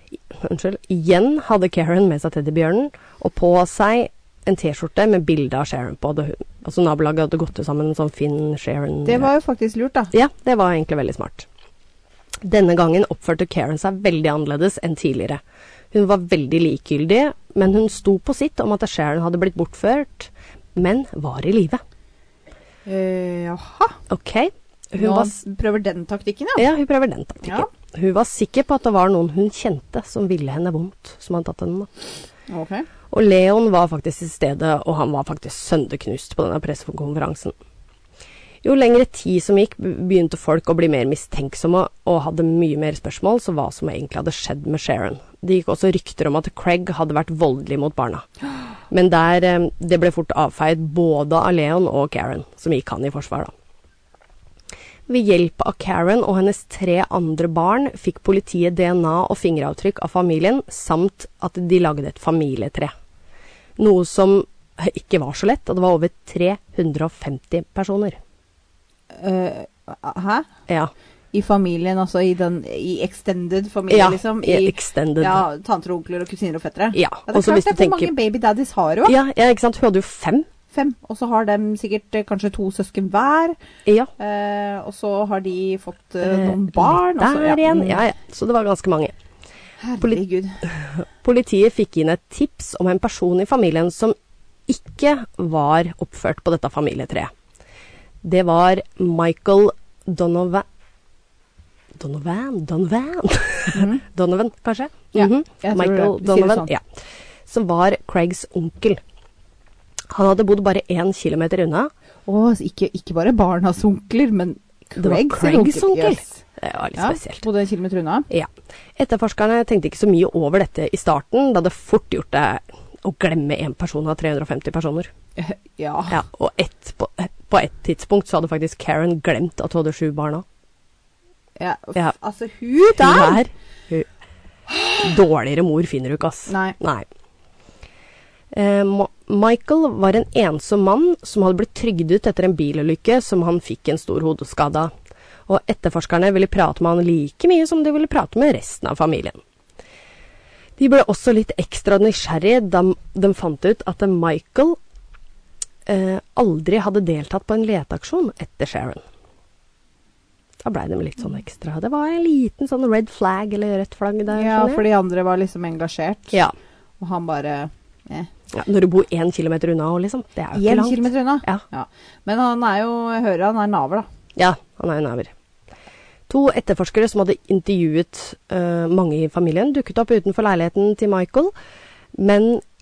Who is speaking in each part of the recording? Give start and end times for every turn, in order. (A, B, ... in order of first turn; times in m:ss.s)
0:00.3-0:09.3 A
0:09.0-0:10.1 B
0:10.1-0:11.5 A
0:12.4-0:15.4 A
0:15.9-0:21.8 A
0:22.9-0:24.0 B
0:24.1-0:25.4 A
0:25.0-0:26.6 B
0:26.6-0:31.9 A
0:32.5-0:32.9 B
0:33.1-0:37.5 A
0:38.6-0:48.3 A
0:48.9-0:53.5 A
0:55.1-1:02.9 A
1:03.8-1:08.2 A
1:09.1-1:10.5 B
1:11.3-1:19.1 B
1:13.9-1:15.4 A
1:16.9-1:18.1 A
1:19.0-1:20.5 A
1:20.7-1:23.6 B
1:23.9-1:24.1 A
1:24.2-1:28.0 B
1:26.2-1:29.1 A
1:29.8-1:30.6 B
1:30.7-1:34.2 A
1:34.7-1:37.3 A
1:38.2-1:40.6 A
1:42.0-1:46.8 A
1:43.7-1:44.0 B
1:45.1-1:46.7 B
1:47.5-1:49.0 A
1:50.1-1:51.9 A
1:52.2-1:56.4 B
1:55.0-1:57.4 A
1:57.0-1:58.3 B
1:58.3-2:05.1 A
2:05.4-2:06.2 B
2:06.1-2:10.4 A
2:11.6-2:13.4 B
2:13.0-2:14.1 A
2:14.7-2:15.0 B
2:15.0-2:17.0 A
2:16.5-2:16.8 B
2:18.5-2:24.9 A
2:25.5-2:29.4 A
2:30.8-2:34.8 A
2:35.9-2:39.0 A
2:40.6-2:44.8 A
2:44.3-2:46.4 B
2:47.0-2:48.3 B
2:48.5-2:51.6 A
2:50.5-2:54.1 B
2:54.4-2:55.3 A
2:56.3-3:01.5 A
3:02.1-3:02.6 A